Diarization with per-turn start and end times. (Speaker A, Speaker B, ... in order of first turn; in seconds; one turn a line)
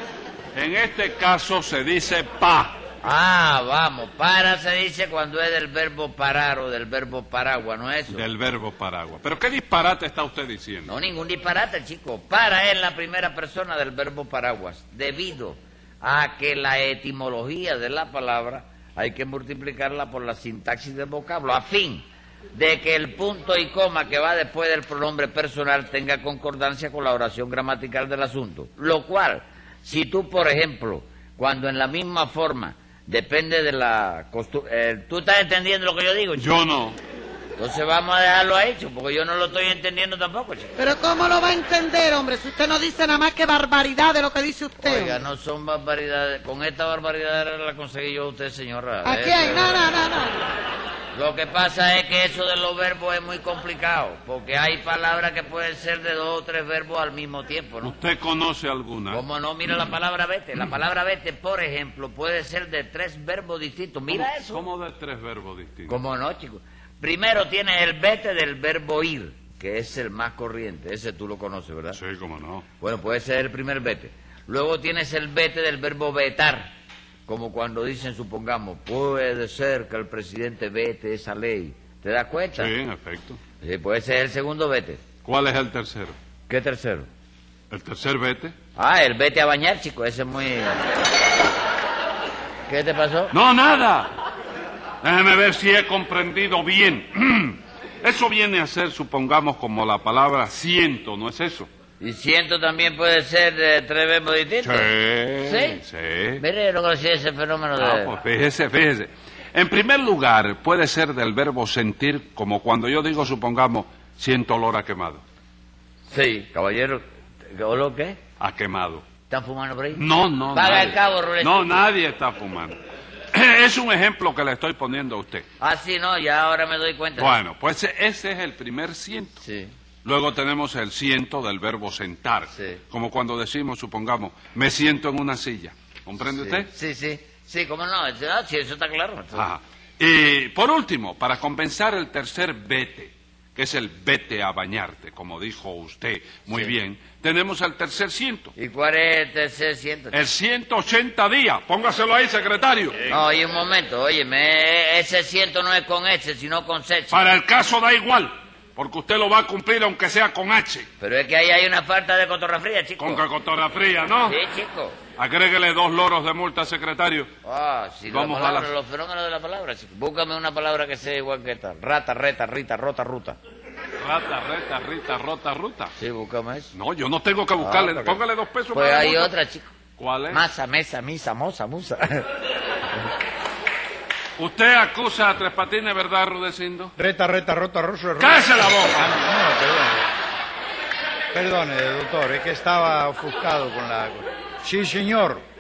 Speaker A: 0.5-2.8
Speaker B: 3.0-8.2
Speaker A: 8.1-10.9
Speaker B: 10.9-36.5
Speaker A: 36.4-37.0
Speaker B: 37.6-40.8
Speaker C: 40.8-45.2
Speaker B: 44.8-49.8
Speaker C: 49.0-50.5
Speaker B: 51.1-58.0
Speaker A: 57.8-59.2
Speaker B: 59.1-64.7
Speaker A: 64.1-66.0
Speaker B: 65.9-72.0
Speaker A: 71.9-72.7
Speaker B: 72.8-76.7
Speaker B: 77.3-82.7
Speaker A: 82.5-83.4
Speaker B: 83.6-85.0
Speaker A: 85.2-86.2
Speaker B: 86.5-87.1
Speaker A: 87.7-88.5
Speaker B: 88.8-90.8
Speaker B: 92.7-93.3
Speaker A: 93.3-94.2
Speaker A: 95.0-101.7
Speaker B: 102.0-105.8
Speaker A: 104.6-106.4
Speaker B: 106.4-108.1
Speaker A: 107.8-115.2
Speaker B: 116.1-118.2
Speaker A: 118.4-119.0
Speaker B: 119.3-121.8
Speaker A: 119.9-122.8
Speaker A: 123.3-125.5
Speaker B: 125.6-127.4
Speaker A: 127.2-129.4
Speaker B: 129.4-129.7
Speaker A: 130.0-136.7
Speaker B: 132.5-132.8
Speaker B: 136.2-139.5
Speaker A: 139.3-148.5
Speaker B: 148.6-150.2
Speaker A: 150.1-153.2
Speaker B: 153.1-157.2
Speaker A: 157.1-160.9
Speaker B: 161.0-163.2
Speaker A: 163.0-164.4
Speaker B: 164.2-165.0
Speaker A: 165.2-167.3
Speaker B: 167.4-173.4
Speaker A: 168.1-168.7
Speaker A: 174.0-175.9
Speaker B: 176.0-176.7
Speaker A: 176.7-179.3
Speaker B: 177.6-178.2
Speaker B: 178.7-179.7
Speaker A: 180.0-180.4
Speaker B: 180.3-182.3
Speaker A: 184.4-186.9
Speaker D: 187.0-190.1
Speaker A: 188.2-189.1
Speaker D: 191.3-195.4